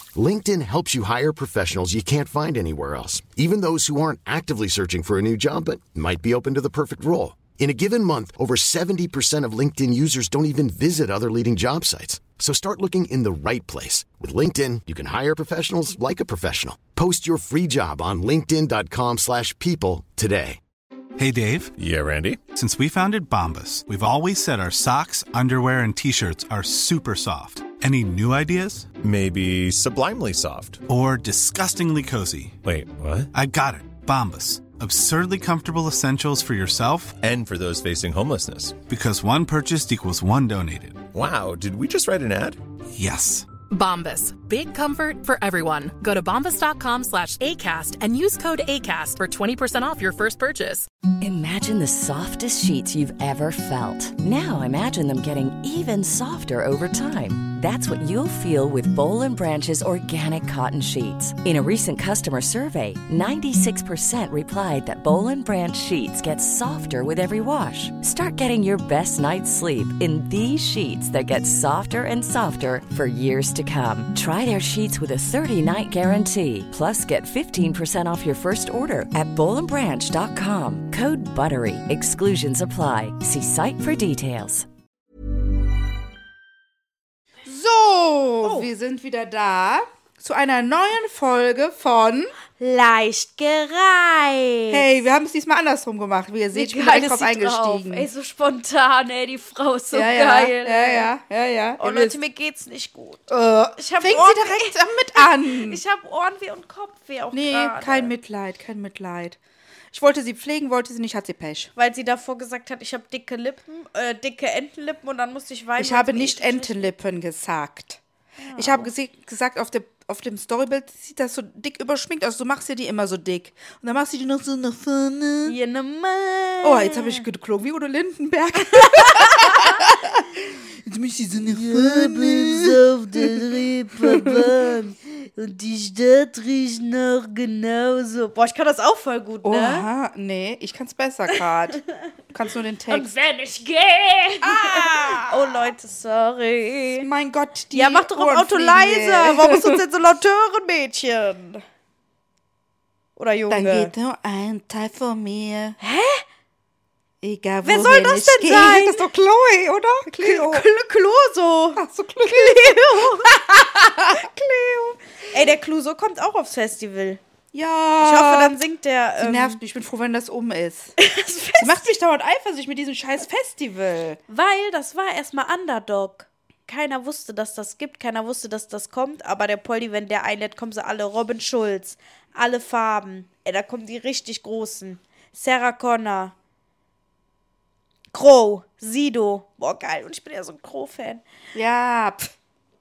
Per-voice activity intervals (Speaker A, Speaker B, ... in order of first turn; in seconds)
Speaker A: 0.1-20.6
Speaker B: 21.2-21.7, 22.5-28.9, 30.9-32.6, 33.3-37.2, 38.9-41.0, 42.9-43.5
Speaker C: 21.8-22.4, 29.0-30.8, 32.6-33.3, 37.2-38.8, 41.1-42.6
Speaker D: 43.7-50.9
Speaker E: 51.2-84.7
Speaker F: 87.5-92.3, 94.7-98.1, 99.9-102.2, 103.3-105.8, 107.3-109.4, 109.9-111.7, 115.8-118.0, 118.6-125.5, 126.6-133.4, 134.0-134.7, 139.4-141.8, 142.3-143.1, 144.4-145.7, 147.0-149.8, 153.5-155.8, 157.2-160.7, 161.8-165.0, 167.5-168.6, 169.2-171.0, 171.6-174.2, 191.5-192.3
Speaker G: 88.4-88.7, 92.6-95.0, 96.5-101.1, 101.8-103.2, 103.8-108.1, 111.8-116.9, 118.4-118.9, 125.5-127.2, 128.6-129.8, 131.5-139.9, 142.9-147.1, 147.7-151.6, 153.2-153.9, 155.8-156.2, 157.6-159.0, 160.1-163.4, 165.3-167.2, 168.0-169.6, 171.0-171.9, 174.3-186.3, 188.1-191.2